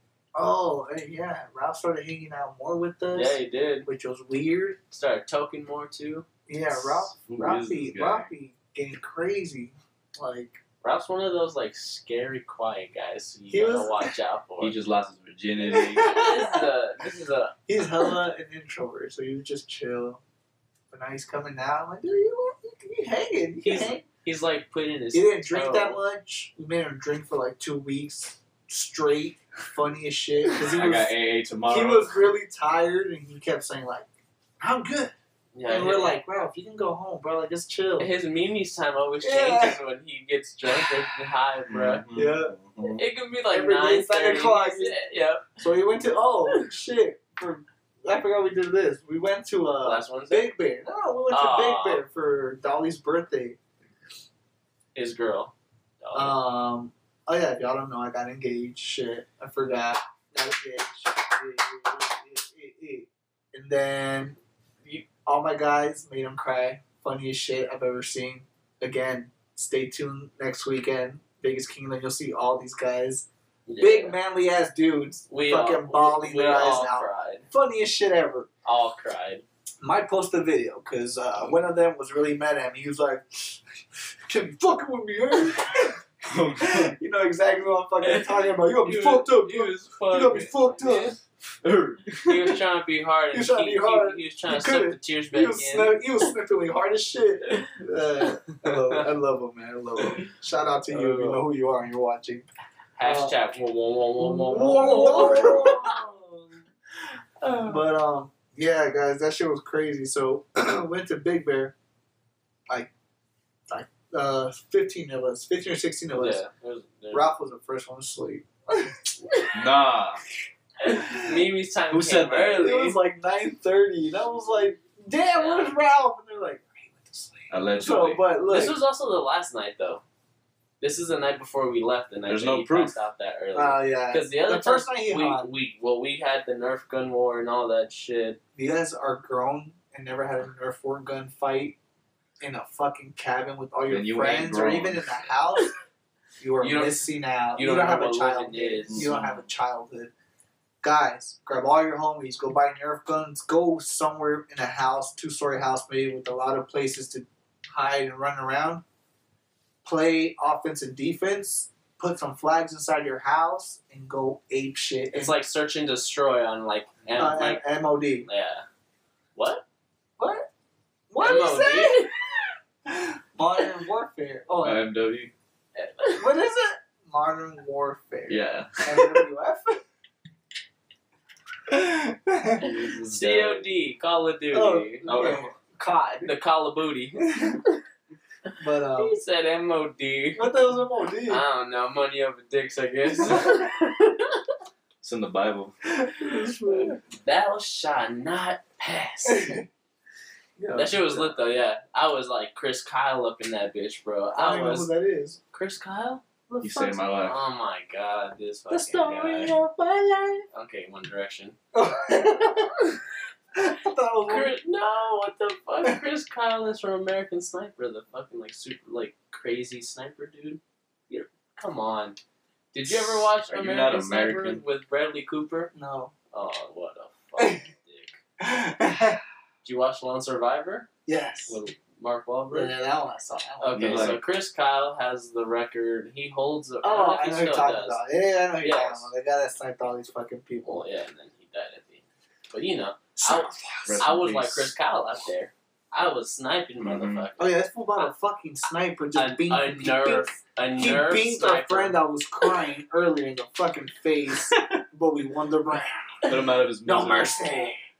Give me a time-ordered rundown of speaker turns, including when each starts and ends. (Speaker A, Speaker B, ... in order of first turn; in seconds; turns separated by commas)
Speaker A: 0.3-4.8, Speaker B: 3.1-3.9, Speaker B: 4.9-6.2, Speaker A: 6.5-10.6, Speaker C: 6.8-8.3, Speaker B: 10.8-14.8, Speaker A: 13.5-14.1, Speaker C: 14.6-16.1, Speaker A: 15.7-16.6, Speaker B: 16.0-18.1, Speaker A: 17.7-20.2, Speaker A: 20.9-24.0, Speaker B: 23.6-26.0, Speaker A: 25.1-31.1, Speaker C: 30.5-32.3, Speaker A: 31.7-34.1, Speaker A: 34.6-35.1, Speaker B: 35.5-36.2, Speaker A: 35.7-38.1, Speaker B: 38.0-42.0, Speaker A: 39.2-39.8, Speaker C: 41.7-43.0, Speaker A: 42.1-42.5, Speaker B: 42.9-45.6, Speaker A: 43.5-44.9, Speaker A: 45.6-53.6, Speaker B: 49.8-50.5, Speaker B: 51.3-52.0, Speaker B: 54.9-56.4, Speaker A: 56.1-73.3, Speaker B: 73.7-74.2, Speaker A: 73.8-78.5, Speaker B: 75.3-77.5, Speaker B: 78.6-79.4, Speaker A: 79.8-83.6, Speaker A: 84.2-86.0, Speaker C: 86.2-86.9, Speaker A: 86.6-91.2, Speaker B: 88.0-91.2, Speaker C: 91.6-92.6, Speaker B: 92.2-96.0, Speaker A: 93.3-102.5, Speaker B: 97.5-97.7, Speaker B: 98.6-99.0, Speaker B: 100.9-101.4, Speaker B: 103.0-106.0, Speaker A: 103.0-103.3, Speaker A: 104.2-106.5, Speaker B: 107.4-107.8, Speaker A: 107.6-111.7, Speaker A: 113.7-116.4, Speaker B: 116.1-117.3, Speaker A: 117.1-119.1, Speaker C: 119.5-120.2, Speaker B: 120.8-123.0, Speaker A: 120.8-121.4, Speaker C: 121.9-122.7, Speaker A: 122.6-128.8, Speaker B: 125.3-125.7, Speaker C: 127.5-128.2, Speaker B: 128.5-130.0, Speaker B: 130.8-138.4, Speaker C: 132.3-132.9, Speaker A: 133.5-135.5, Speaker A: 138.6-141.8, Speaker A: 142.4-145.7, Speaker C: 143.9-145.2, Speaker A: 146.4-150.1, Speaker B: 146.6-149.1, Speaker C: 148.9-149.4, Speaker A: 150.8-158.8, Speaker A: 159.8-165.3, Speaker B: 165.1-167.6, Speaker A: 167.2-168.3, Speaker B: 168.2-168.7, Speaker B: 169.3-169.6, Speaker A: 170.2-170.5, Speaker A: 171.1-172.2, Speaker B: 171.2-172.1, Speaker A: 172.8-174.8, Speaker C: 174.6-175.3, Speaker B: 175.7-176.3, Speaker A: 176.2-179.8, Speaker C: 178.3-179.2, Speaker A: 181.7-182.7, Speaker C: 182.6-183.7, Speaker B: 183.1-185.1, Speaker A: 184.5-186.3, Speaker C: 185.0-185.5, Speaker B: 186.2-187.8, Speaker B: 188.5-190.5, Speaker A: 188.6-189.2, Speaker A: 190.3-191.4, Speaker B: 191.3-194.5, Speaker A: 193.2-193.6, Speaker C: 195.0-195.7, Speaker A: 195.9-197.0, Speaker B: 196.6-199.6, Speaker A: 199.2-199.7, Speaker A: 200.6-201.4, Speaker B: 200.7-204.9, Speaker A: 204.3-205.4, Speaker B: 205.5-206.2, Speaker A: 206.5-207.1, Speaker C: 206.6-207.4, Speaker B: 207.2-209.5, Speaker A: 208.7-210.5, Speaker B: 210.5-211.6, Speaker A: 211.7-213.0, Speaker A: 213.5-214.5, Speaker B: 214.3-222.2, Speaker B: 222.7-225.7, Speaker C: 223.5-224.6, Speaker A: 225.7-226.1, Speaker B: 226.3-228.2, Speaker A: 227.4-227.6, Speaker A: 228.4-229.2, Speaker B: 229.6-230.9, Speaker A: 231.1-231.6, Speaker B: 231.5-232.7, Speaker A: 232.5-234.2, Speaker B: 233.6-238.0, Speaker C: 233.7-234.2, Speaker A: 236.8-240.8, Speaker B: 238.6-239.1, Speaker B: 240.6-248.1, Speaker A: 243.2-244.1, Speaker C: 243.8-244.7, Speaker C: 246.8-247.3, Speaker A: 247.4-257.8, Speaker B: 249.1-252.0, Speaker C: 256.2-257.4